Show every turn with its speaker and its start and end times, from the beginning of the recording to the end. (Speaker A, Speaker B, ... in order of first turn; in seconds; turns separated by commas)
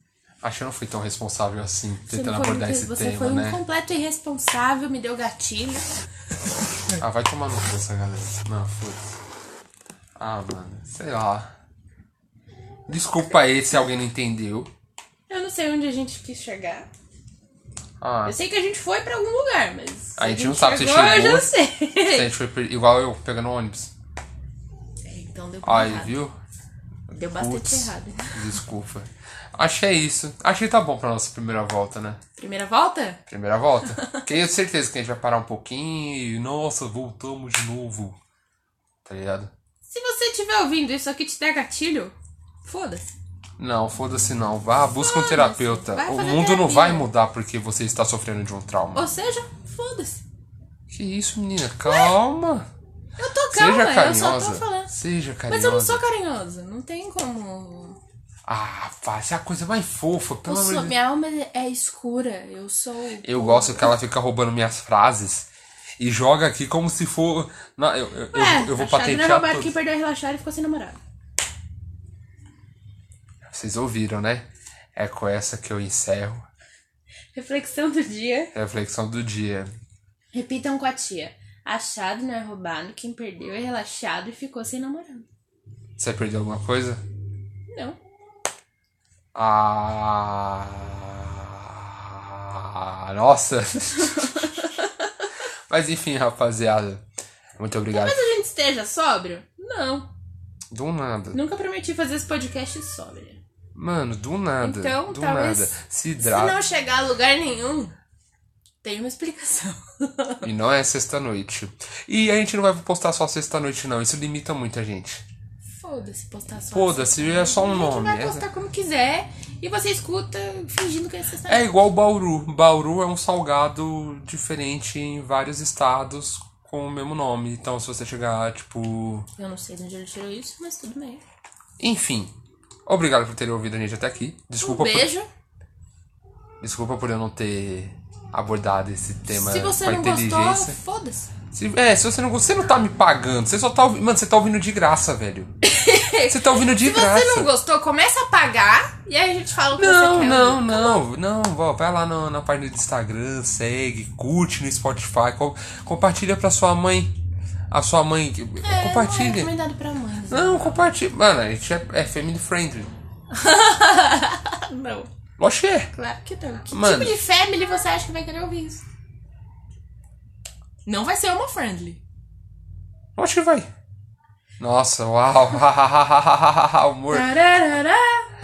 Speaker A: 0.4-3.6, Speaker B: 2.1-5.9, Speaker A: 7.0-9.2, Speaker A: 10.2-11.5, Speaker A: 12.9-14.7, Speaker B: 15.3-16.9, Speaker A: 18.0-18.4, Speaker B: 18.2-22.3, Speaker A: 20.2-21.5, Speaker A: 22.0-23.9, Speaker B: 25.1-26.2, Speaker A: 25.6-26.4, Speaker B: 27.1-28.6, Speaker A: 27.2-32.2, Speaker B: 32.4-33.2, Speaker A: 33.3-38.2, Speaker B: 33.9-34.3, Speaker A: 39.0-39.5, Speaker B: 39.9-43.1, Speaker A: 43.6-49.1, Speaker B: 44.9-47.1, Speaker B: 48.9-50.2, Speaker A: 50.9-52.7, Speaker B: 51.9-52.1, Speaker B: 53.2-54.9, Speaker A: 53.5-56.0, Speaker B: 55.5-58.0, Speaker A: 58.5-61.0, Speaker B: 60.5-63.9, Speaker A: 63.2-69.7, Speaker B: 68.3-71.0, Speaker A: 73.5-76.5, Speaker B: 77.3-78.5, Speaker A: 78.5-79.7, Speaker B: 80.3-85.3, Speaker A: 86.0-87.0, Speaker B: 87.7-88.0, Speaker A: 89.3-94.7, Speaker B: 94.0-95.3, Speaker A: 95.7-97.0, Speaker A: 97.6-98.2, Speaker B: 97.9-100.1, Speaker A: 100.7-101.4, Speaker B: 101.3-103.4, Speaker A: 103.7-106.6, Speaker B: 104.6-108.0, Speaker B: 108.8-110.5, Speaker A: 110.4-115.3, Speaker B: 115.8-121.7, Speaker A: 116.7-118.5, Speaker A: 121.5-129.3, Speaker B: 129.4-131.2, Speaker A: 131.8-132.3, Speaker A: 132.9-135.1, Speaker B: 134.6-135.3, Speaker A: 136.6-140.8, Speaker B: 139.3-141.3, Speaker A: 141.5-145.5, Speaker B: 145.6-151.0, Speaker A: 146.3-147.5, Speaker A: 149.8-157.2, Speaker A: 157.7-159.5, Speaker B: 158.6-160.7, Speaker A: 160.3-162.9, Speaker B: 163.3-165.1, Speaker A: 165.4-165.9, Speaker B: 165.9-168.8, Speaker A: 166.7-167.2, Speaker B: 170.8-172.0, Speaker A: 173.2-173.7, Speaker A: 174.6-177.3, Speaker B: 177.1-178.2